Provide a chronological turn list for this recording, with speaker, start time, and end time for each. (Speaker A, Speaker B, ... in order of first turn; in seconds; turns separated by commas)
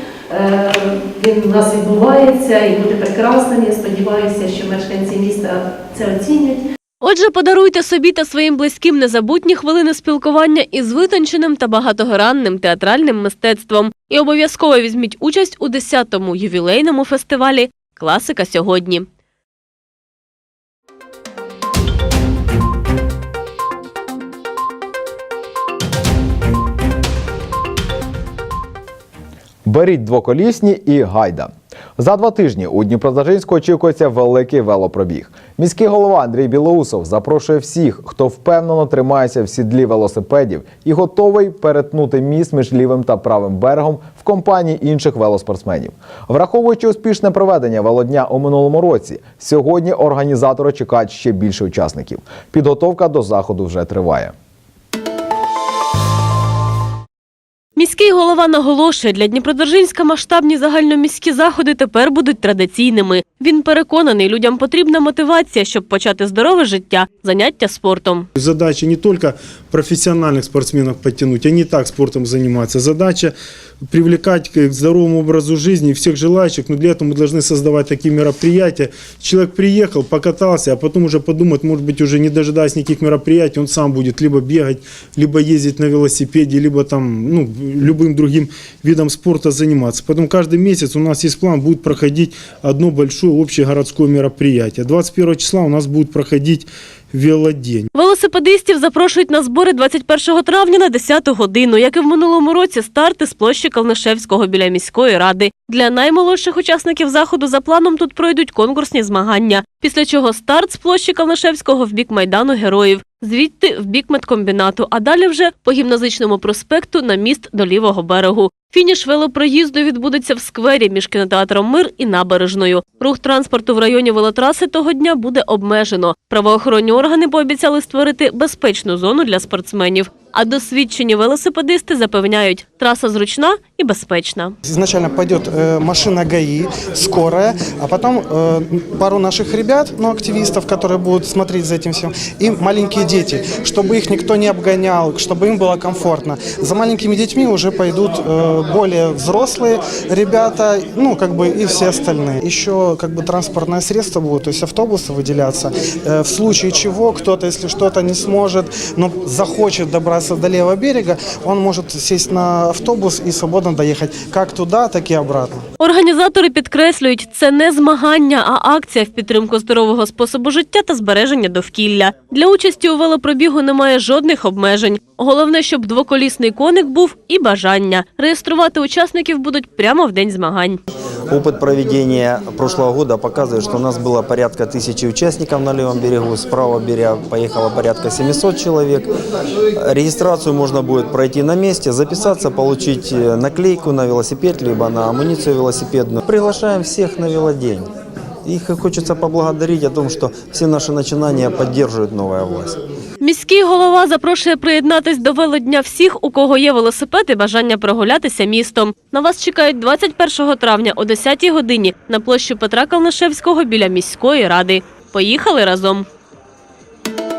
Speaker A: 0.3-6.6, Speaker B: 7.0-19.1, Speaker C: 29.6-54.3, Speaker B: 57.8-68.3, Speaker D: 68.3-73.3, Speaker D: 73.9-97.9, Speaker B: 97.9-134.6, Speaker E: 134.6-165.6, Speaker B: 165.8-180.8, Speaker F: 181.3-189.1, Speaker F: 189.8-197.9, Speaker F: 198.4-202.8, Speaker B: 203.2-216.1